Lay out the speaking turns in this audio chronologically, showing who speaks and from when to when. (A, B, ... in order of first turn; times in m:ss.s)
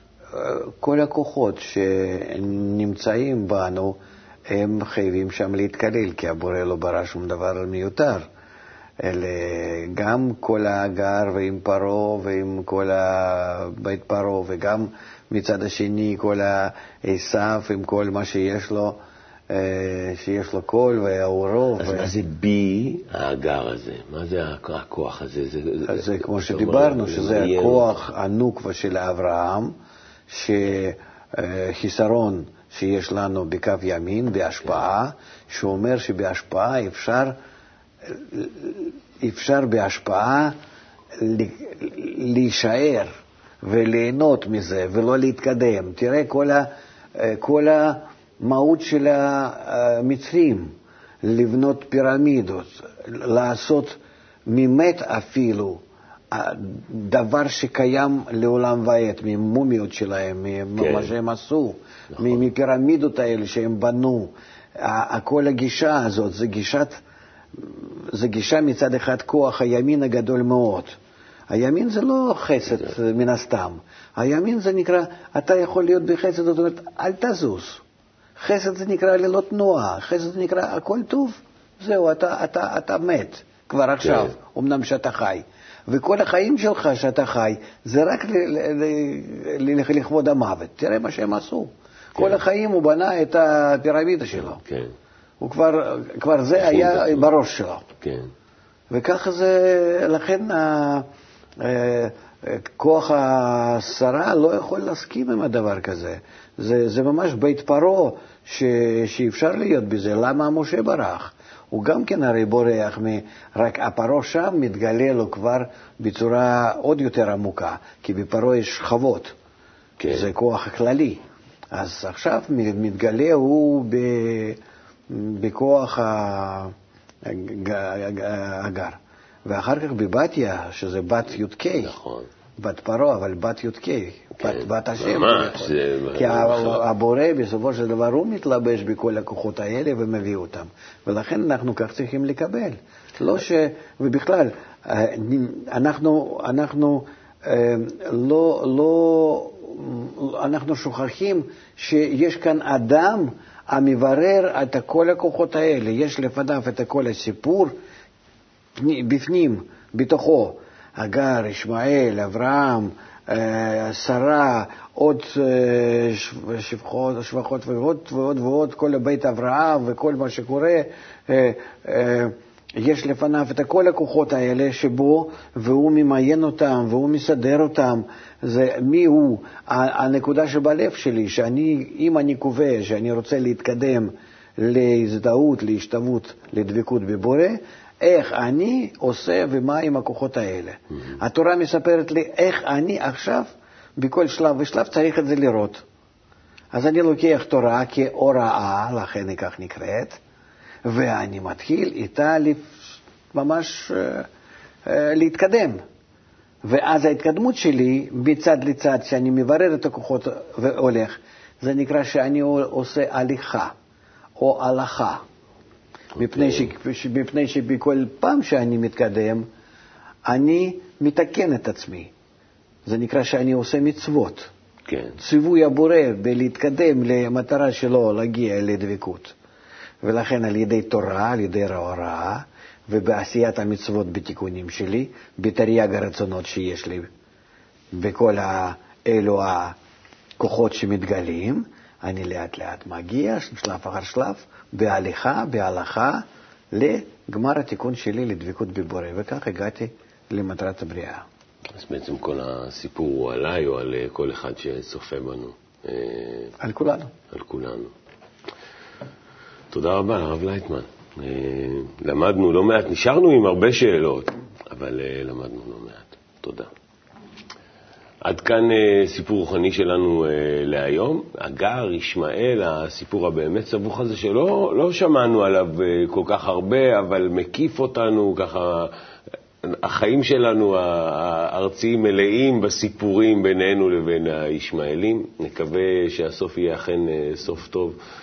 0:00.3-0:04.0 A
0:04.5-0:08.2 A
0:09.0-0:19.0 A
0:19.5-0:22.1 A
0:21.8-0:28.0 B
0:25.9-0:29.7 A
0:30.3-0:37.4 A
0:38.1-0:40.6 A
0:41.2-0:43.1 A
0:43.6-0:50.7 A
0:51.2-0:55.8 A
0:56.3-1:07.0 A
1:00.8-1:01.1 B
1:07.6-1:11.0 A
1:11.5-1:17.8 A
1:18.4-1:34.6 A
1:24.0-1:24.3 B
1:34.4-1:34.9 B
1:35.4-1:37.9 A
1:36.6-1:37.2 B
1:38.0-1:38.3 B
1:38.9-1:41.1 A
1:41.6-1:59.3 A
2:00.0-2:00.3 B
2:00.1-2:01.2 A
2:01.7-2:06.7 A
2:07.2-2:11.9 A
2:11.8-2:12.3 B
2:12.6-2:37.7 A
2:14.4-2:16.8 B
2:38.8-3:15.8 A
3:16.7-3:20.2 A
3:20.8-3:22.8 A
3:23.3-3:24.3 A
3:24.9-3:25.8 A
3:26.6-3:33.7 A
3:34.4-3:35.2 A
3:36.2-3:39.5 A
3:36.2-3:36.7 B
3:40.3-3:42.1 A
3:42.9-3:44.5 A
3:44.9-3:45.2 B
3:45.2-3:49.4 A
3:50.0-3:57.1 A
3:57.9-3:59.8 A
4:00.4-4:11.2 A
4:11.7-4:16.6 B
4:16.6-4:17.1 A
4:17.3-4:17.9 B
4:19.7-4:26.7 B
4:28.2-4:38.9 B
4:39.6-4:48.0 B